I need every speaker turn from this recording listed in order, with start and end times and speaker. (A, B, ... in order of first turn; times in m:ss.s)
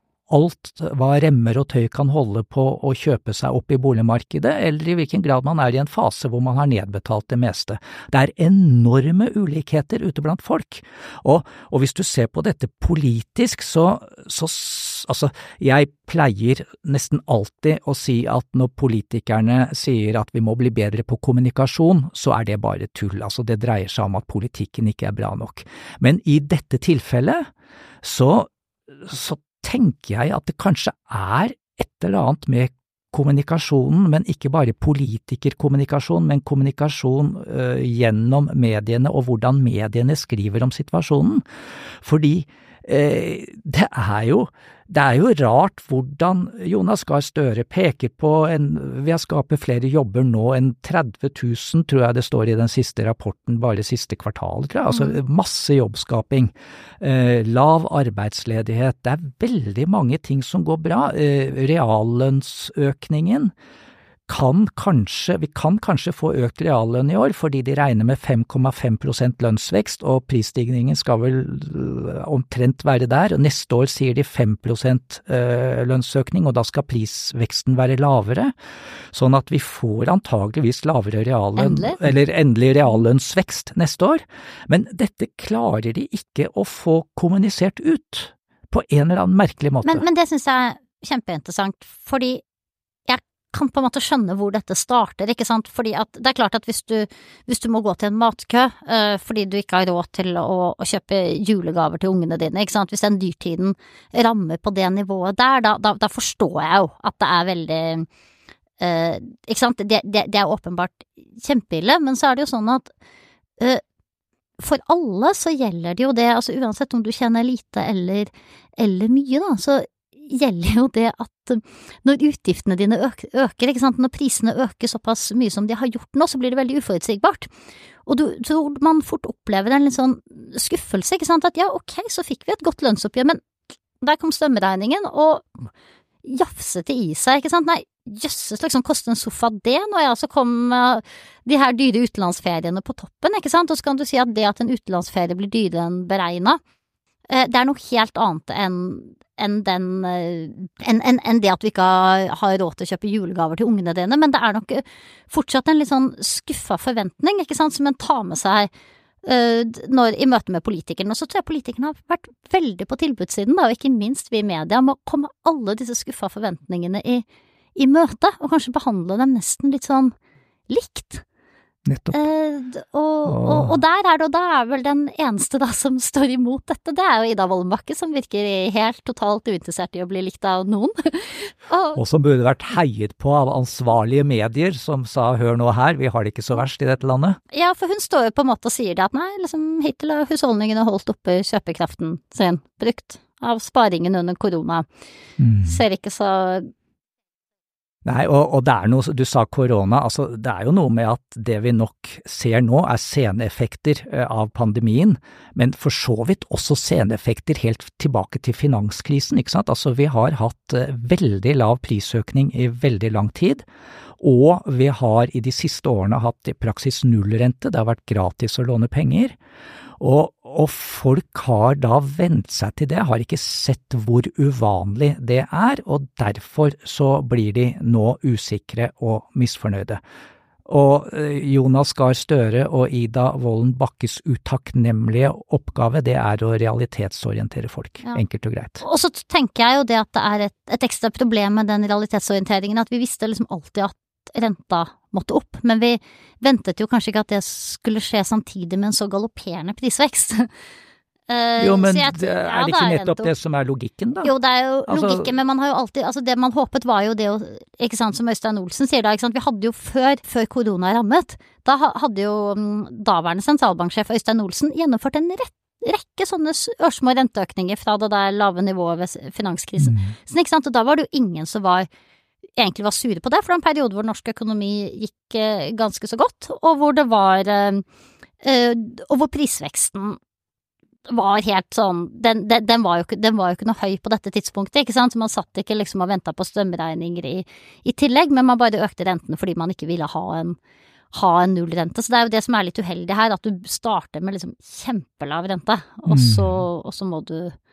0:00.3-0:27.5 A
0:28.0-0:41.4 A
0:42.0-1:03.5 A
1:04.3-1:18.5 A
1:19.1-1:30.0 A
1:21.6-1:22.0 B
1:29.8-1:32.4 B
1:33.1-1:48.1 B
1:48.8-1:52.9 B
1:54.6-2:07.5 B
2:08.0-2:13.4 B
2:14.0-2:15.7 B
2:16.2-2:26.6 B
2:27.3-2:38.7 B
2:39.2-2:47.2 B
2:47.8-2:50.1 B
2:50.7-2:51.2 B
2:51.8-2:52.2 A
2:52.1-3:02.0 B
2:53.2-2:53.8 A
3:01.9-3:07.4 A
3:07.5-3:14.8 B
3:15.4-3:15.8 A
3:15.6-3:16.7 B
3:18.0-3:33.6 A
3:34.2-3:39.4 A
3:40.0-3:50.0 A
3:50.7-3:58.8 A
3:58.8-4:10.5 B
4:11.3-4:13.3 B
4:11.6-4:14.3 A
4:14.2-4:31.9 B
4:14.9-4:15.3 A
4:29.8-4:30.1 A
4:32.6-4:37.8 B
4:38.4-4:40.2 B
4:41.1-4:50.6 B
4:51.1-4:57.5 B
4:56.1-4:56.6 A